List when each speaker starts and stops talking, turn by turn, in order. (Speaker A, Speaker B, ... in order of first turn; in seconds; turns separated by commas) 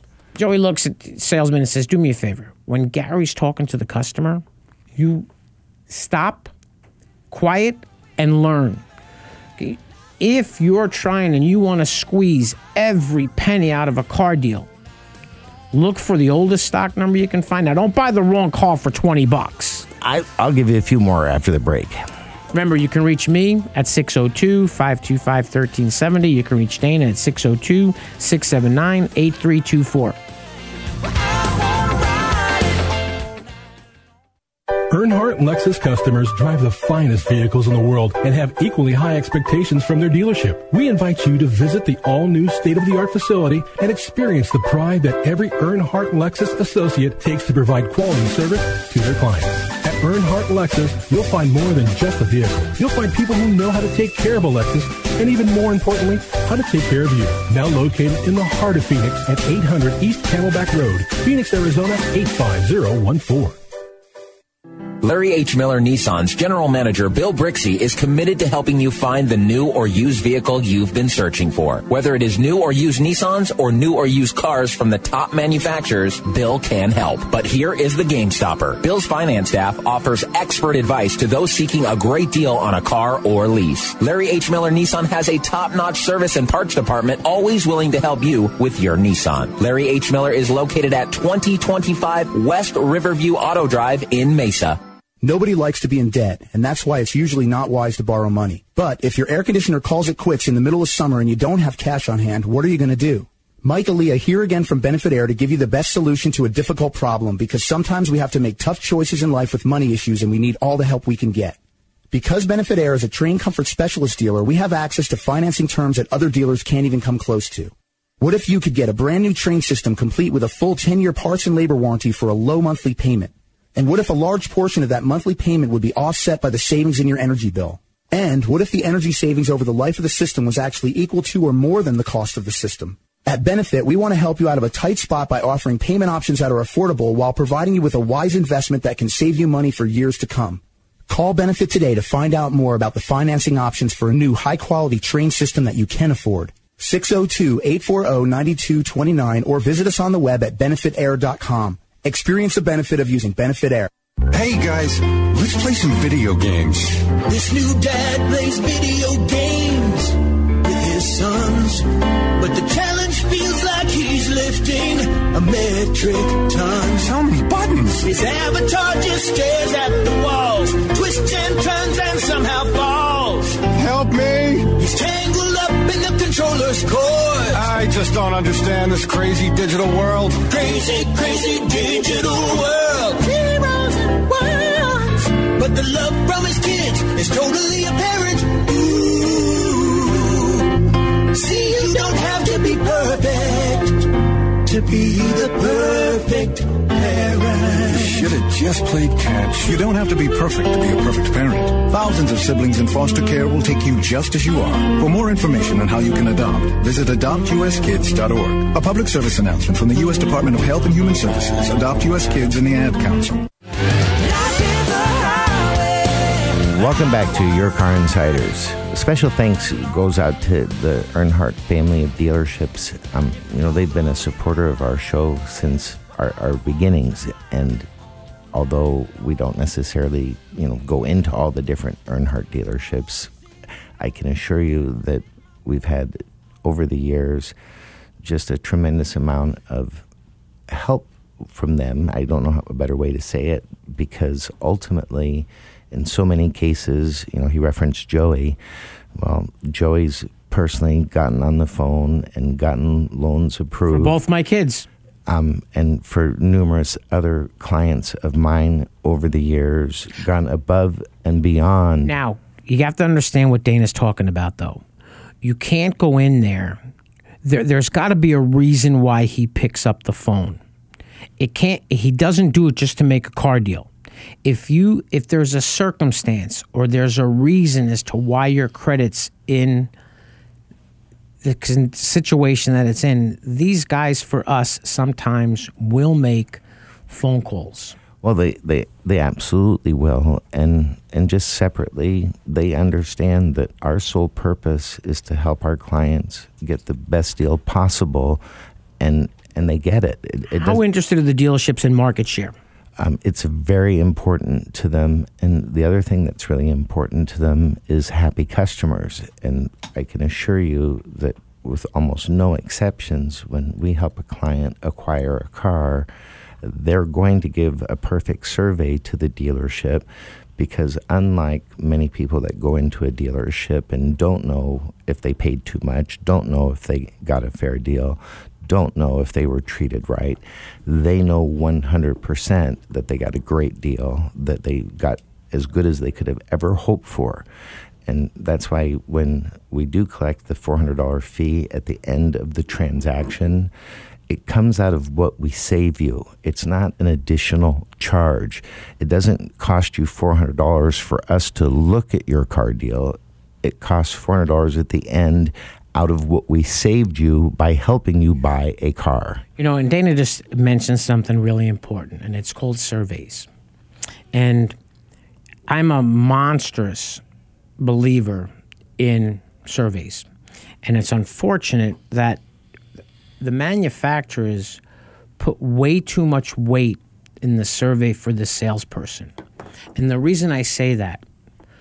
Speaker A: 0.3-4.4, Speaker A: 5.0-5.3, Speaker A: 5.9-6.5, Speaker A: 7.3-8.8, Speaker A: 9.6-14.7, Speaker A: 15.7-19.9, Speaker B: 20.0-22.0, Speaker A: 22.5-30.2, Speaker C: 34.9-63.6, Speaker D: 65.0-94.8, Speaker E: 95.2-111.6, Speaker E: 112.1-153.9, Speaker F: 154.3-157.1, Speaker G: 157.2-167.1, Speaker F: 167.0-168.1, Speaker G: 168.0-173.7, Speaker F: 173.7-174.7, Speaker G: 174.6-177.7, Speaker F: 177.5-180.4, Speaker G: 180.4-198.3, Speaker F: 197.9-213.5, Speaker B: 216.4-227.9, Speaker B: 228.5-233.3, Speaker B: 234.0-237.6, Speaker B: 238.2-240.1, Speaker B: 240.7-248.6, Speaker B: 249.2-254.2, Speaker A: 253.9-254.9, Speaker B: 255.3-262.1, Speaker A: 262.0-264.8, Speaker A: 265.4-266.8, Speaker A: 267.4-270.6, Speaker A: 271.4-273.9, Speaker A: 274.4-279.9, Speaker A: 281.4-288.0, Speaker B: 288.2-298.4, Speaker B: 299.0-300.8, Speaker A: 300.5-302.6, Speaker B: 303.0-316.1, Speaker B: 316.6-337.5, Speaker B: 338.1-343.7, Speaker B: 344.3-359.4, Speaker A: 359.6-363.5, Speaker A: 364.3-364.8, Speaker A: 365.7-367.2, Speaker A: 367.8-370.3, Speaker A: 370.8-372.4, Speaker A: 373.4-374.8, Speaker A: 375.4-379.3, Speaker A: 380.0-381.2